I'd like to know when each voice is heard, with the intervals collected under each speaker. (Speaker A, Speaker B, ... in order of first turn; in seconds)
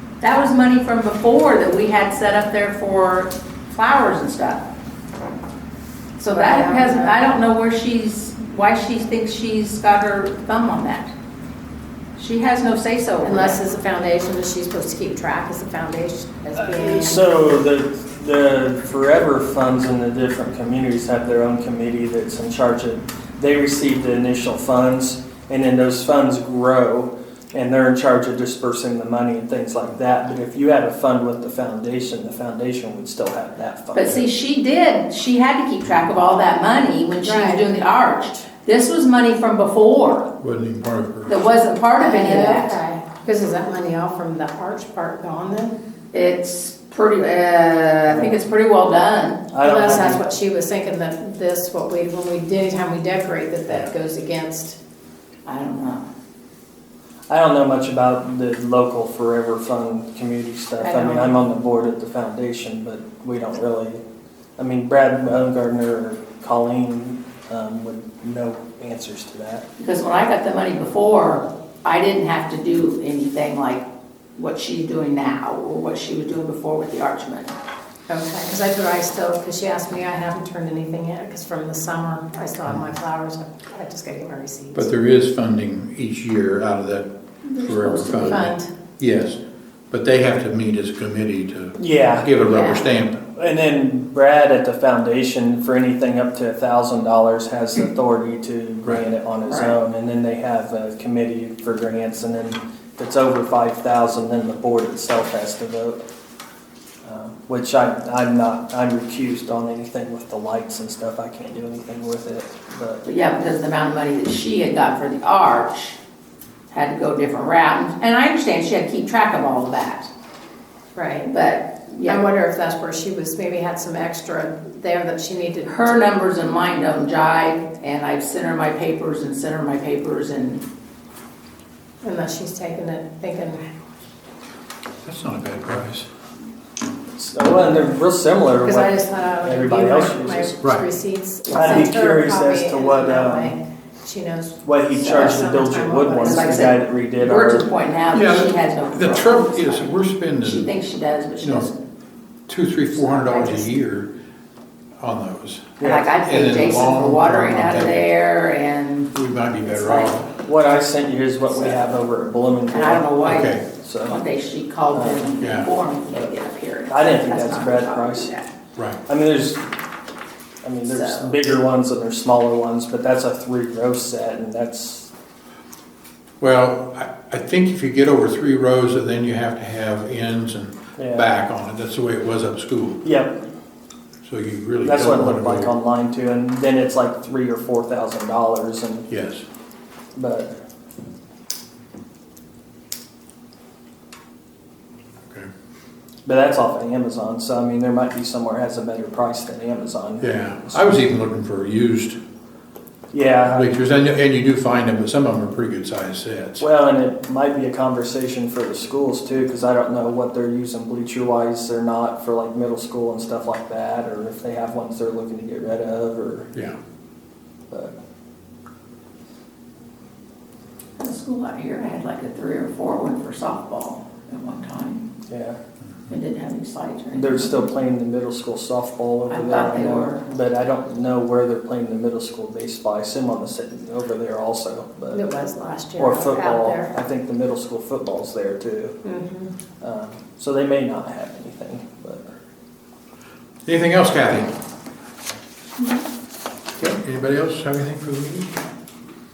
Speaker A: 0.2-4.6, 6.2-11.1, 12.2-13.6, 33.9-40.3, 41.3-42.8, 46.1-49.4, 55.5-56.0, 69.8-77.5, 99.5-99.8, 113.0-116.0, 116.7-120.1, 121.3-122.2, 125.6-130.6, 146.2-151.8, 155.8-159.1, 159.7-160.2, 161.5-161.9, 162.7-168.5, 170.8-171.3, 221.0-225.0, 226.1-227.6, 229.3-230.2
Speaker B: 6.3-7.1, 13.2-17.2, 37.2-37.7, 42.0-45.8, 49.6-54.8, 60.8-61.3, 78.1-84.9, 87.6-88.7, 92.4-92.8, 120.9-121.3, 122.0-125.8, 132.0-133.6, 138.6-146.6, 153.1-153.7, 235.1-236.9, 239.0-239.5
Speaker C: 16.6-34.2, 48.1-48.3, 49.5-50.2, 57.3-64.0, 64.6-69.6, 91.8-92.3, 93.3-106.0, 107.0-113.0, 137.1-140.5, 141.5-143.6, 144.6-147.7, 160.4-163.1, 163.7-164.2, 164.9-165.3, 166.9-168.3, 169.1-169.7, 170.6-175.1, 181.0-181.3, 183.0-183.4, 184.8-189.1, 190.1-190.5, 196.2-200.8, 203.1-203.7, 206.6-216.5, 217.7-217.9, 225.3-225.6, 227.1-235.2, 235.9-239.0, 239.8-242.3
Speaker D: 40.4-41.3, 84.7-89.4, 89.9-93.2, 135.0-136.1, 148.1-150.7, 151.4-151.7, 152.5-154.1, 155.0-158.1, 159.1-160.3, 163.2-163.6, 165.4-165.7, 176.4-183.0, 184.2-185.7, 189.1-189.4, 200.2-202.2, 203.5-206.6, 243.7-244.5, 246.8-248.5